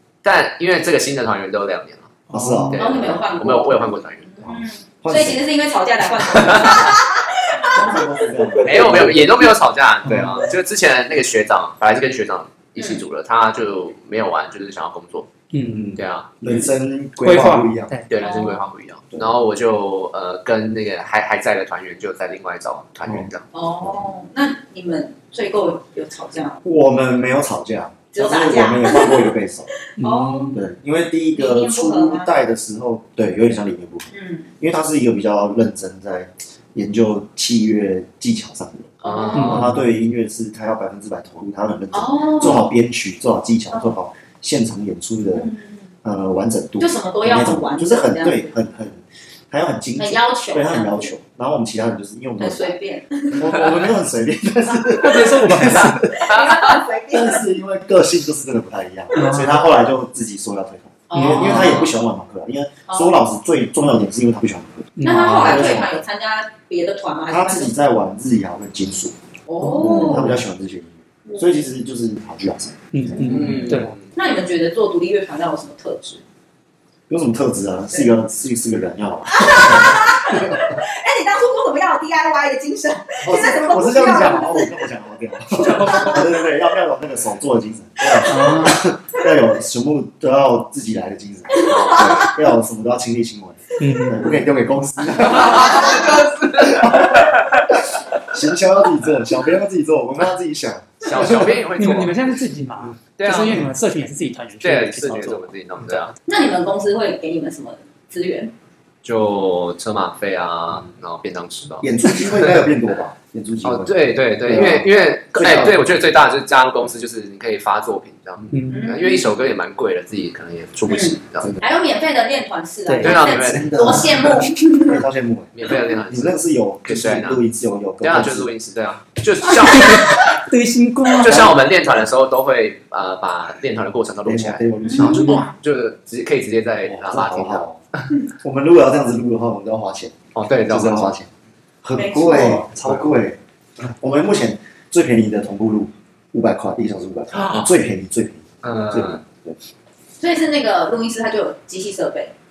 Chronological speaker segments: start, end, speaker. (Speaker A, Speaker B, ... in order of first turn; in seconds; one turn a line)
Speaker A: 0.2-4.5
Speaker B: 2.3-3.2
Speaker C: 2.3-2.8
Speaker D: 2.8-8.7
Speaker B: 4.5-5.4
Speaker A: 6.2-7.0
Speaker B: 7.6-9.5
Speaker A: 8.6-15.3
Speaker C: 10.0-10.5
Speaker D: 12.8-13.0
Speaker C: 15.5-15.8
Speaker B: 15.7-17.9
Speaker A: 16.0-16.3
Speaker D: 16.4-16.7
Speaker C: 17.2-18.5
Speaker A: 18.1-23.5
Speaker D: 18.2-18.6
Speaker D: 23.5-26.6
Speaker B: 26.6-29.7
Speaker D: 28.1-29.3
Speaker D: 29.9-30.6
Speaker C: 30.0-30.6
Speaker B: 30.5-34.1
Speaker D: 31.4-32.3
Speaker D: 34.1-34.5
Speaker B: 34.6-45.5
Speaker D: 39.0-39.6
Speaker A: 39.0-39.6
Speaker C: 39.4-39.8
Speaker D: 41.9-42.7
Speaker D: 45.3-45.8
Speaker B: 46.0-52.8
Speaker D: 46.8-48.5
Speaker D: 50.0-51.1
Speaker D: 52.4-53.7
Speaker B: 53.3-56.4
Speaker C: 54.9-56.0
Speaker D: 56.1-57.4
Speaker B: 57.1-65.9
Speaker C: 59.1-59.5
Speaker D: 61.1-61.9
Speaker C: 61.1-61.6
Speaker A: 61.3-61.9
Speaker D: 62.9-63.2
Speaker C: 65.0-65.8
Speaker D: 65.0-67.7
Speaker A: 65.1-65.8
Speaker B: 67.3-69.2
Speaker D: 69.5-70.4
Speaker C: 69.6-70.3
Speaker B: 69.7-73.6
Speaker D: 71.3-71.5
Speaker C: 72.9-73.9
Speaker A: 73.2-74.1
Speaker D: 73.3-76.2
Speaker B: 77.1-80.8
Speaker D: 79.3-84.8
Speaker B: 83.2-101.7
Speaker D: 85.7-86.3
Speaker C: 88.2-88.8
Speaker D: 91.5-92.3
Speaker A: 91.6-92.3
Speaker C: 93.8-94.3
Speaker A: 95.2-97.6
Speaker A: 101.0-102.2
Speaker C: 101.8-106.1
Speaker A: 103.2-103.7
Speaker A: 104.6-106.1
Speaker D: 106.3-108.5
Speaker A: 109.0-112.7
Speaker B: 111.8-115.9
Speaker A: 113.6-121.6
Speaker C: 118.5-118.8
Speaker D: 118.7-119.3
Speaker D: 120.9-125.0
Speaker C: 122.9-123.2
Speaker A: 123.0-124.3
Speaker B: 123.3-128.5
Speaker A: 125.5-127.4
Speaker A: 128.0-130.4
Speaker C: 129.7-131.5
Speaker A: 131.2-137.7
Speaker B: 131.2-131.7
Speaker B: 134.2-135.4
Speaker D: 134.8-135.6
Speaker C: 135.0-135.4
Speaker B: 136.9-137.8
Speaker B: 138.4-141.3
Speaker A: 140.3-141.1
Speaker B: 141.8-149.6
Speaker D: 142.0-142.7
Speaker A: 142.8-143.1
Speaker A: 147.3-147.7
Speaker A: 148.6-149.2
Speaker D: 150.2-152.3